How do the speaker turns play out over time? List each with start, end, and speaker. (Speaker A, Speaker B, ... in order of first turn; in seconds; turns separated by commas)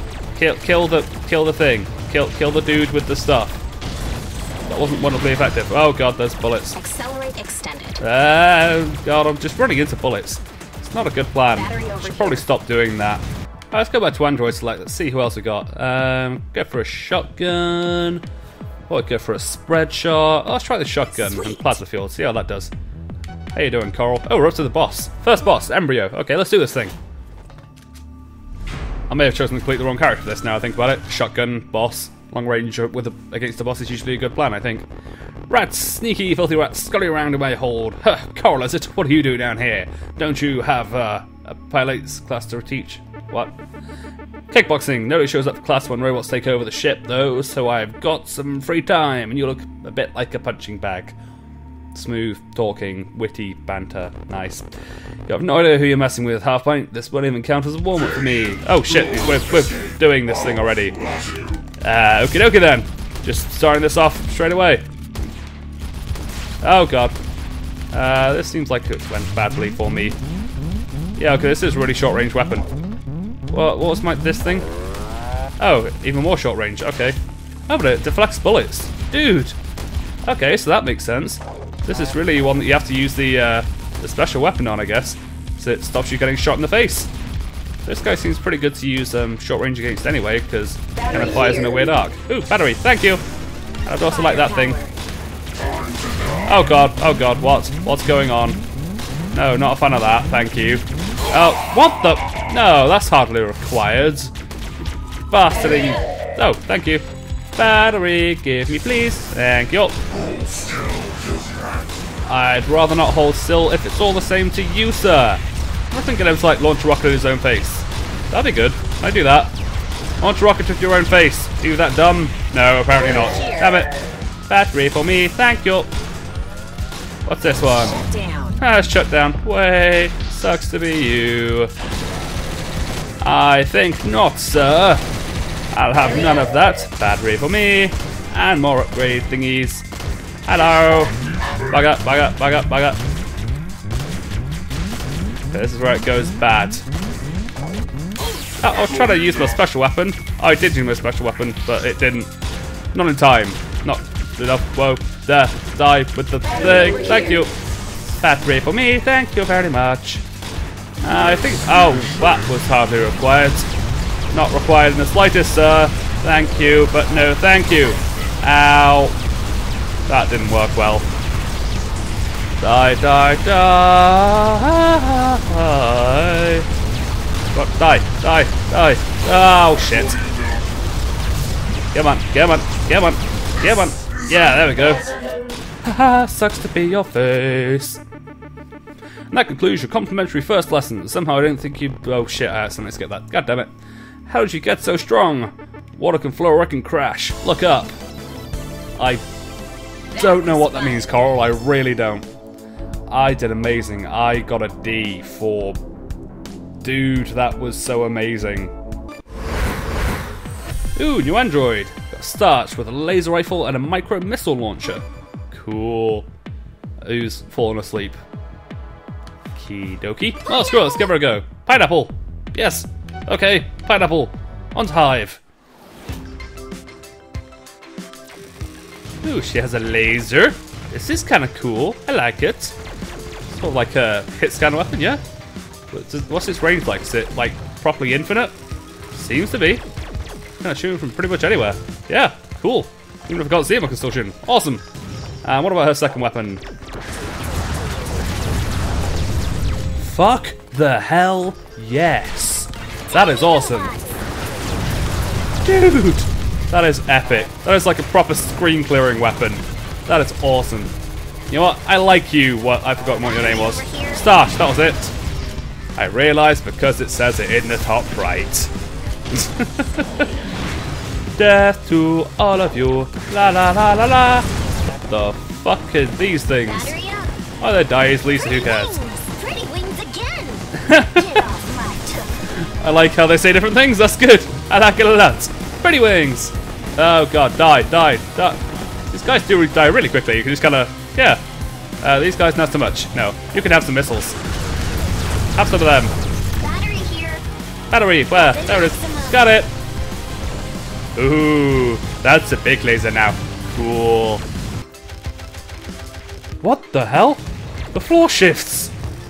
Speaker A: 0.3-3.6, Speaker A: 4.7-6.8, Speaker B: 6.7-8.0, Speaker A: 8.0-18.2, Speaker B: 11.5-12.4, Speaker A: 18.9-22.7, Speaker B: 21.2-21.8, Speaker A: 23.6-26.9, Speaker A: 29.1-34.9, Speaker A: 35.5-43.6, Speaker A: 44.5-51.2, Speaker A: 51.9-54.7, Speaker A: 55.3-61.0, Speaker A: 61.8-64.9, Speaker A: 66.6-67.2, Speaker A: 67.9-70.2, Speaker A: 71.2-72.7, Speaker A: 73.5-74.7, Speaker A: 75.6-79.6, Speaker A: 80.2-87.1, Speaker A: 87.8-93.2, Speaker B: 91.1-91.7, Speaker A: 93.9-94.8, Speaker B: 93.9-95.0, Speaker A: 96.5-98.6, Speaker A: 99.3-104.3, Speaker A: 105.3-110.0, Speaker A: 112.3-119.5, Speaker A: 120.2-123.9, Speaker B: 123.0-123.7, Speaker A: 124.5-125.9, Speaker A: 127.3-128.0, Speaker B: 127.9-128.6, Speaker A: 128.6-131.7, Speaker A: 133.2-135.0, Speaker A: 135.7-139.9, Speaker A: 140.5-143.0, Speaker A: 145.5-146.8, Speaker A: 148.6-152.3, Speaker A: 152.9-157.5, Speaker A: 158.2-160.2, Speaker A: 161.0-163.7, Speaker A: 164.3-169.2, Speaker A: 170.1-171.1, Speaker A: 172.6-176.7, Speaker A: 177.5-180.2, Speaker A: 181.9-185.1, Speaker A: 185.8-188.0, Speaker A: 189.3-193.7, Speaker A: 194.3-197.9, Speaker A: 199.0-199.2, Speaker B: 200.1-201.5, Speaker A: 200.1-202.3, Speaker A: 203.1-205.8, Speaker A: 206.8-208.7, Speaker A: 211.0-216.3, Speaker A: 217.0-218.2, Speaker A: 219.6-225.4, Speaker B: 220.5-221.1, Speaker A: 229.2-232.8, Speaker A: 233.5-235.2, Speaker A: 235.9-238.6, Speaker A: 239.1-239.8, Speaker A: 240.6-244.8, Speaker A: 245.4-246.6, Speaker A: 250.0-253.9, Speaker B: 253.1-254.3, Speaker A: 255.6-260.9, Speaker A: 261.5-265.1, Speaker B: 263.2-264.2, Speaker A: 266.0-268.7, Speaker A: 269.3-270.3, Speaker A: 271.4-274.5, Speaker A: 275.1-277.0, Speaker B: 276.7-277.3, Speaker A: 277.6-279.0, Speaker B: 278.4-282.5, Speaker A: 280.8-281.3, Speaker A: 282.6-288.6, Speaker A: 289.1-291.4, Speaker A: 292.0-294.4, Speaker A: 295.6-296.2, Speaker B: 296.6-297.4, Speaker A: 297.9-299.7, Speaker B: 298.3-299.5, Speaker A: 301.2-304.4, Speaker A: 306.6-308.9